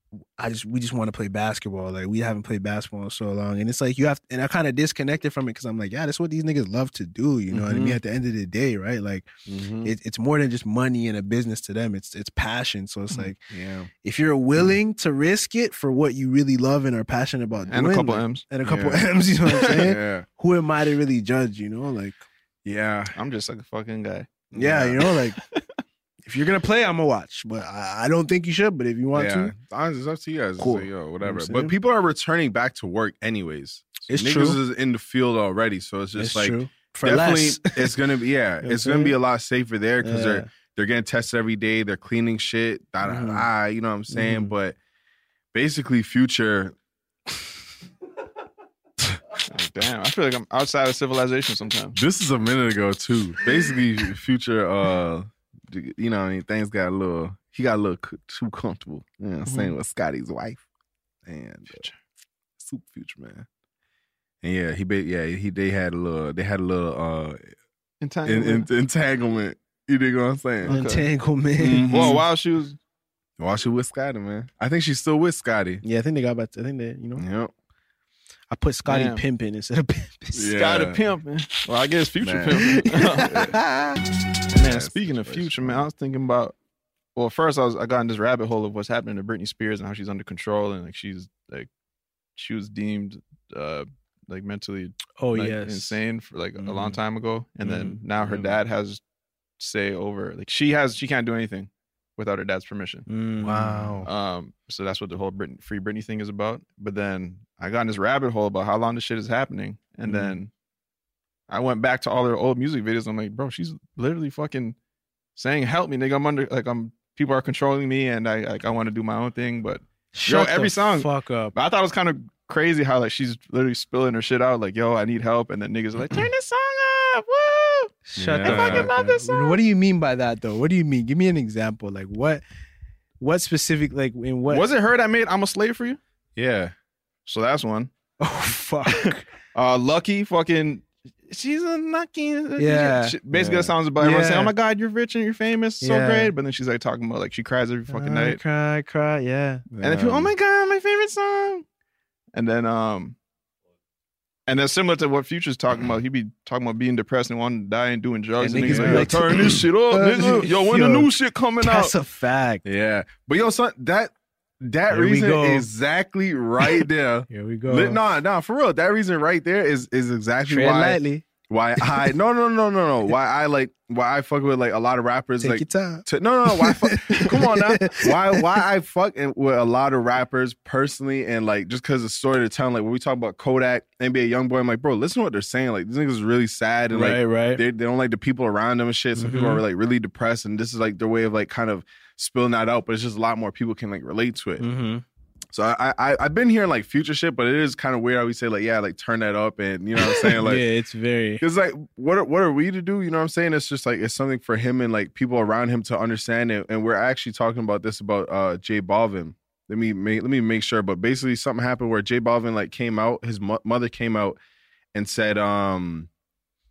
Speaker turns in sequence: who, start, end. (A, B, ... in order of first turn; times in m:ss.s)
0:00.4-0:09.3 A
0:07.5-0:08.0 B
0:09.4-0:09.9 B
0:09.8-0:13.4 A
0:13.2-0:13.9 B
0:14.0-0:22.2 A
0:17.7-0:18.4 C
0:18.6-0:19.1 B
0:19.6-0:20.3 B
0:22.6-0:23.1 B
0:23.1-0:24.4 C
0:24.5-0:25.0 B
0:24.5-0:25.4 A
0:25.4-0:25.6 C
0:26.2-0:29.5 A
0:29.1-0:44.8 B
0:30.6-0:31.7 A
0:34.1-0:34.6 A
0:36.2-0:38.0 A
0:38.6-0:39.2 A
0:40.0-0:40.5 A
0:43.0-0:43.5 A
0:44.1-0:44.5 A
0:45.5-0:46.7 B
0:49.5-0:52.0 C
0:51.9-1:00.6 B
0:59.4-0:59.7 C
1:01.2-1:01.8 B
1:02.6-1:03.5 B
1:04.4-1:07.4 B
1:08.0-1:08.7 C
1:08.2-1:10.8 B
1:10.6-1:11.0 C
1:10.6-1:12.2 A
1:11.6-1:12.2 B
1:11.9-1:12.8 C
1:13.4-1:15.8 B
1:15.8-1:17.2 A
1:17.2-1:17.5 B
1:18.5-1:20.6 A
1:18.8-1:19.2 C
1:20.3-1:21.0 B
1:20.5-1:23.4 C
1:22.2-1:23.6 B
1:23.2-1:24.0 A
1:24.5-1:25.8 B
1:24.5-1:26.6 C
1:27.2-1:31.7 C
1:32.4-1:39.0 C
1:35.2-1:36.0 A
1:36.6-1:37.0 A
1:37.6-1:38.0 A
1:38.2-1:38.6 B
1:39.6-1:43.0 C
1:43.1-1:44.0 A
1:43.4-1:44.1 B
1:44.0-1:50.5 C
1:50.0-1:50.4 A
1:51.5-1:54.8 C
1:55.4-2:09.6 C
2:00.1-2:01.5 A
2:08.1-2:12.4 A
2:08.2-2:08.9 B
2:13.2-2:14.7 A
2:14.5-2:16.0 C
2:16.4-2:16.7 B
2:17.2-2:17.9 C
2:18.2-2:19.2 A
2:18.9-2:28.4 C
2:22.6-2:23.2 A
2:23.3-2:23.7 B
2:24.0-2:24.5 A
2:25.8-2:26.3 A
2:27.9-2:29.6 A
2:29.7-2:30.3 B
2:29.8-2:31.6 C
2:32.3-2:33.2 C
2:34.5-2:41.9 C
2:38.4-2:41.1 A
2:38.6-2:39.2 B
2:41.6-2:42.6 A
2:42.6-3:14.6 B
2:44.9-2:45.7 A
2:47.3-2:48.0 A
2:50.5-2:51.2 A
2:51.8-2:52.1 A
2:55.4-2:58.6 A
3:06.9-3:07.6 A
3:09.2-3:09.6 A
3:14.6-3:15.0 A
3:15.5-3:20.6 B
3:20.4-3:21.4 A
3:21.4-3:34.4 B
3:34.9-3:36.1 B